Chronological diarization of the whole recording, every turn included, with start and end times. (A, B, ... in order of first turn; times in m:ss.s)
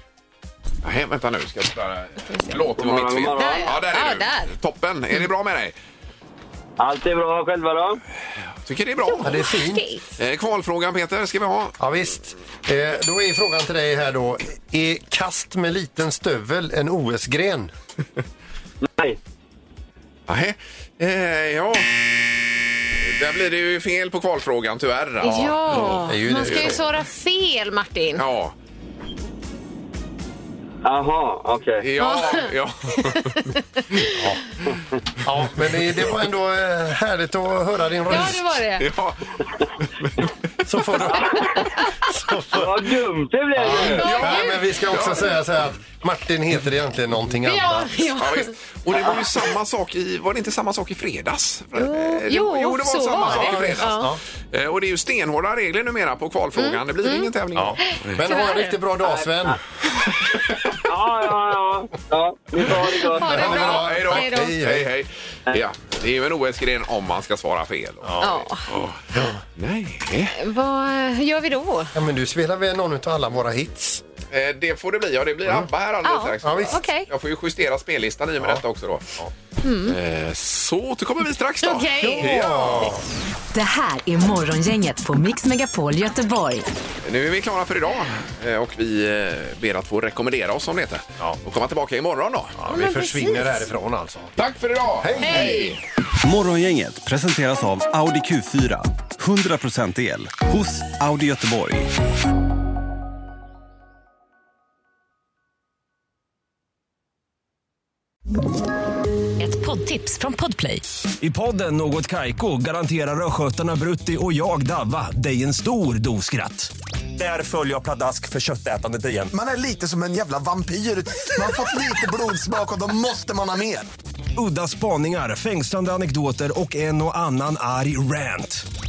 0:00.8-0:05.7 A
0:02.3-0:02.6 B
0:02.8-0:03.6 C
0:03.3-0:04.5 B
0:06.8-0:08.0 C
0:08.6-0:09.4 A
0:09.1-0:10.0 B
0:09.2-0:09.8 D
0:10.2-0:11.8 A
0:11.8-0:17.7 D
0:18.8-0:19.2 C
0:20.3-0:22.0 A
0:23.0-0:26.8 A
0:25.2-0:28.2 B
0:25.8-0:26.8 D
0:28.2-0:28.5 A
0:30.8-0:31.8 C
0:31.8-0:33.4 A
0:32.0-0:34.1 B
0:35.2-0:38.6 D
0:38.1-0:38.8 B
0:38.8-0:40.3 A
0:40.6-0:42.9 D
0:41.4-0:41.6 B
0:42.5-0:44.0 C
0:43.6-0:47.9 D
0:43.7-0:45.3 A
0:43.8-0:44.6 B
0:47.4-0:48.5 B
0:48.2-0:58.2 A
0:51.8-0:54.1 B
0:53.2-0:54.2 D
0:56.6-0:58.7 B
0:57.6-0:59.6 D
0:59.1-0:59.6 C
1:00.9-1:03.3 C
1:03.0-1:04.5 B
1:03.3-1:04.9 D
1:03.3-1:10.4 A
1:08.0-1:08.4 D
1:08.2-1:08.6 B
1:09.1-1:09.4 D
1:10.4-1:11.9 B
1:11.9-1:14.0 D
1:14.3-1:19.1 A
1:16.0-1:17.1 B
1:16.4-1:16.8 D
1:19.6-1:20.0 B
1:19.8-1:22.9 A
1:21.6-1:22.6 B
1:22.0-1:23.0 D
1:23.5-1:26.6 E
1:27.0-1:32.6 A
1:32.6-1:34.4 D
1:32.7-1:33.7 B
1:34.4-1:35.8 A
1:35.0-1:35.7 D
1:35.2-1:35.8 B
1:36.2-1:41.9 F
1:49.4-1:50.8 E
1:51.2-1:59.3 F
1:59.3-2:03.9 G
2:04.4-2:08.6 F